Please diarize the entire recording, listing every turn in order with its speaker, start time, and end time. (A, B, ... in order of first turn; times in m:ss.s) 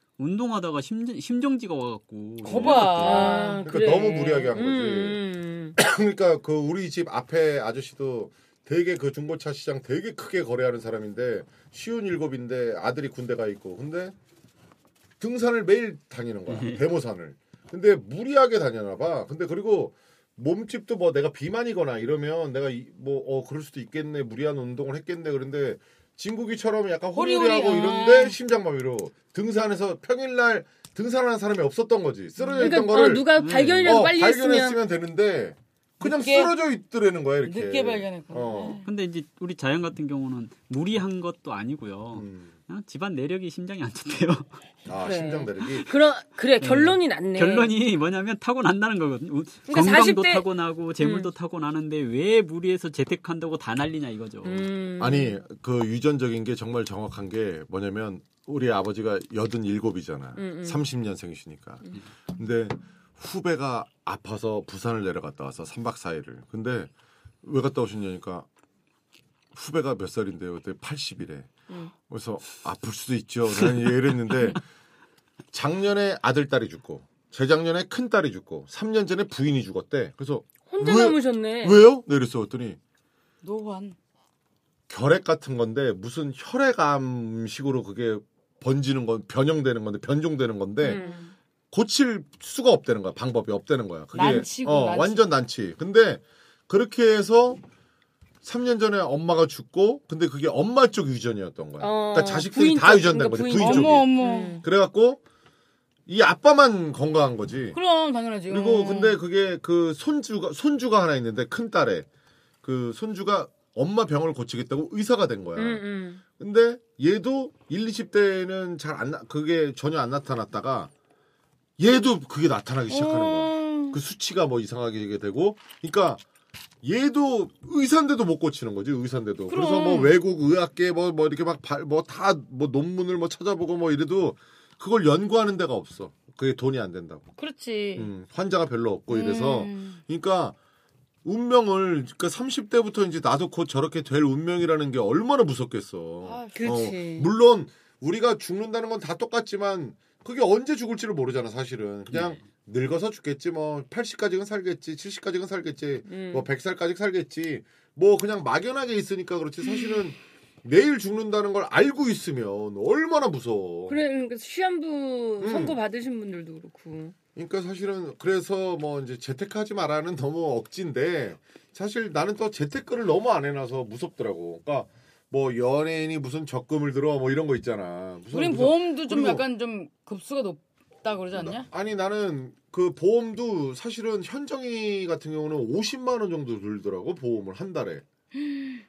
0:00.2-0:03.3 A
0:02.4-0:03.6 B
0:02.4-0:05.2 C
0:02.9-0:05.8 D
0:05.8-0:14.2 C
0:15.2-0:33.3 C
0:16.5-0:16.8 A
0:27.1-0:28.4 B
0:32.4-0:32.8 B
0:32.6-0:34.8 D
0:33.3-0:34.1 A
0:33.8-0:38.8 C
0:36.0-0:36.6 B
0:37.4-0:38.8 B
0:38.8-0:44.6 A
0:42.1-0:42.5 C
0:44.9-0:45.9 C
0:45.0-0:47.7 D
0:46.6-0:54.7 A
0:49.7-0:50.4 D
0:51.0-0:51.3 D
0:54.4-0:55.4 D
0:55.0-1:06.9 C
1:00.4-1:00.8 D
1:07.4-1:08.5 C
1:09.5-1:11.5 C
1:12.1-1:14.6 C
1:15.5-1:22.8 C
1:20.7-1:21.8 D
1:23.4-1:24.0 B
1:24.9-1:31.0 C
1:30.8-1:31.3 D
1:31.7-1:37.6 C
1:34.1-1:35.3 B
1:38.4-1:45.2 C
1:41.8-1:44.6 D
1:43.6-1:44.6 B
1:46.1-1:47.8 C
1:47.7-1:49.2 B
1:48.5-1:52.1 C
1:52.6-1:55.8 C
1:55.6-1:56.2 D
1:56.4-2:00.9 C
2:01.8-2:06.2 C
2:02.9-2:04.0 B
2:06.8-2:17.2 C
2:09.5-2:10.2 B
2:17.4-2:18.1 B
2:18.0-2:20.6 C
2:19.1-2:20.0 B
2:21.2-2:44.0 C
2:26.2-2:26.8 B
2:26.6-2:27.3 D
2:32.1-2:32.4 A
2:36.1-2:36.5 D
2:43.9-2:47.2 D
2:45.4-2:45.8 C
2:47.4-2:59.4 C
2:58.3-3:01.7 B
3:01.3-3:08.0 C
3:08.4-3:08.8 B